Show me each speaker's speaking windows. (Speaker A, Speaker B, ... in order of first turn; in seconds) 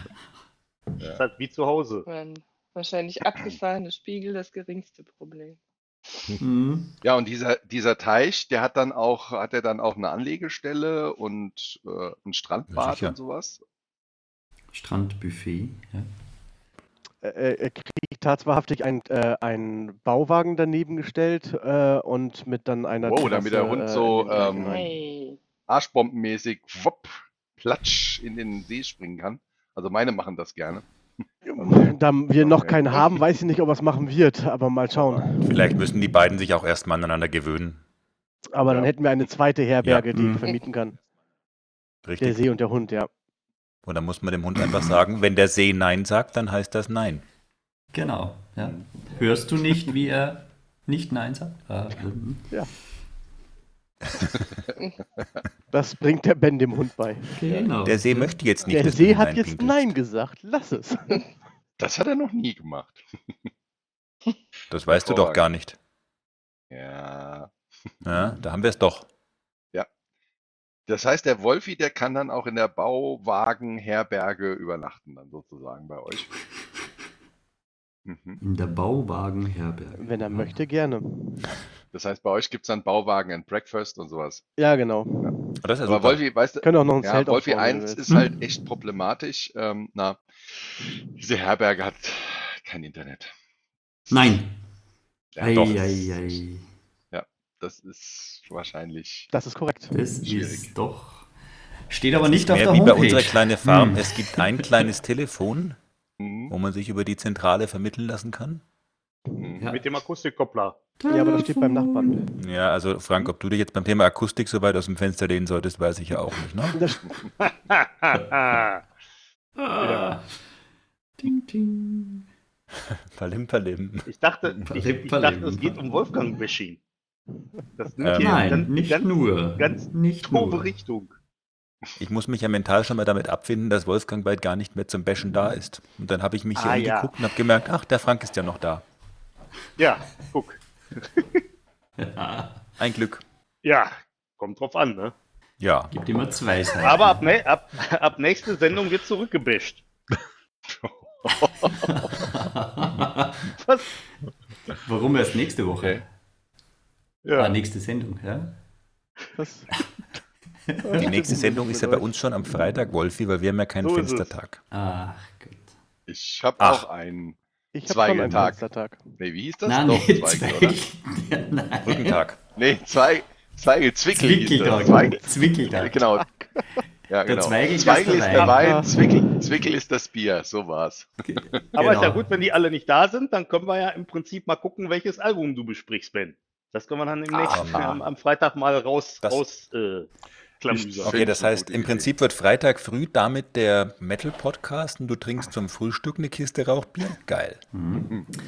Speaker A: 1.2-2.0, 109.7-110.8, 117.4-118.8, 124.0-126.8, 127.8-131.2, 136.5-137.1, 139.8-141.4, 143.6-145.1, 146.8-149.8, 157.2-157.6, 163.8-164.3, 181.7-190.1, 190.6-191.2
Speaker B: 2.0-5.6, 24.4-25.4
Speaker C: 6.4-6.9, 14.7-16.1, 40.1-40.4, 47.9-52.5, 57.4-58.3, 78.4-80.5, 94.1-94.5, 95.4-96.6, 99.9-101.3, 101.9-104.7, 111.0-112.3, 119.6-120.2, 121.2-122.2, 124.7-125.8, 128.2-130.7, 142.0-142.6, 145.9-147.3, 152.2-153.5, 154.8-156.0, 157.3-158.5, 164.7-165.7, 169.6-172.2, 174.1-176.1, 177.2-178.8, 181.3-182.3, 197.7-198.1
Speaker D: 7.0-13.6, 23.0-24.8, 25.7-30.9, 31.6-32.8, 35.0-35.2, 38.7-38.9, 48.6-48.9, 61.8-63.5, 64.9-65.4, 66.7-67.5, 70.9-76.3, 78.0-78.4, 81.9-84.4, 85.8-93.3, 95.3-96.4, 97.1-99.3, 100.2-100.7, 106.2-106.5, 109.4-109.7, 150.7-152.0, 166.1-168.6, 169.2-170.8, 172.5-176.3, 177.1-181.6, 187.3-188.0, 191.0-192.1
Speaker E: 12.7-13.2, 35.4-37.8, 42.0-42.4, 43.9-47.2, 57.8-59.9, 64.7-65.8, 68.0-69.1, 85.6-86.2, 95.5-95.8, 102.2-105.8, 106.5-108.6, 112.4-116.8, 123.1-124.1, 128.0-128.5, 132.0-138.8, 142.8-143.2, 145.6-145.9, 160.9-164.6, 166.6-166.8, 171.8-172.4, 187.5-187.9, 190.7-197.6
Speaker F: 17.2-24.9, 31.4-35.4, 38.5-41.0, 42.2-43.1, 55.7-57.3, 58.6-61.2, 80.0-81.5, 84.6-85.3, 86.6-88.1, 99.3-99.9, 111.1-112.2, 116.7-117.0, 159.3-159.7, 160.8-162.1, 167.7-169.0, 178.5-178.9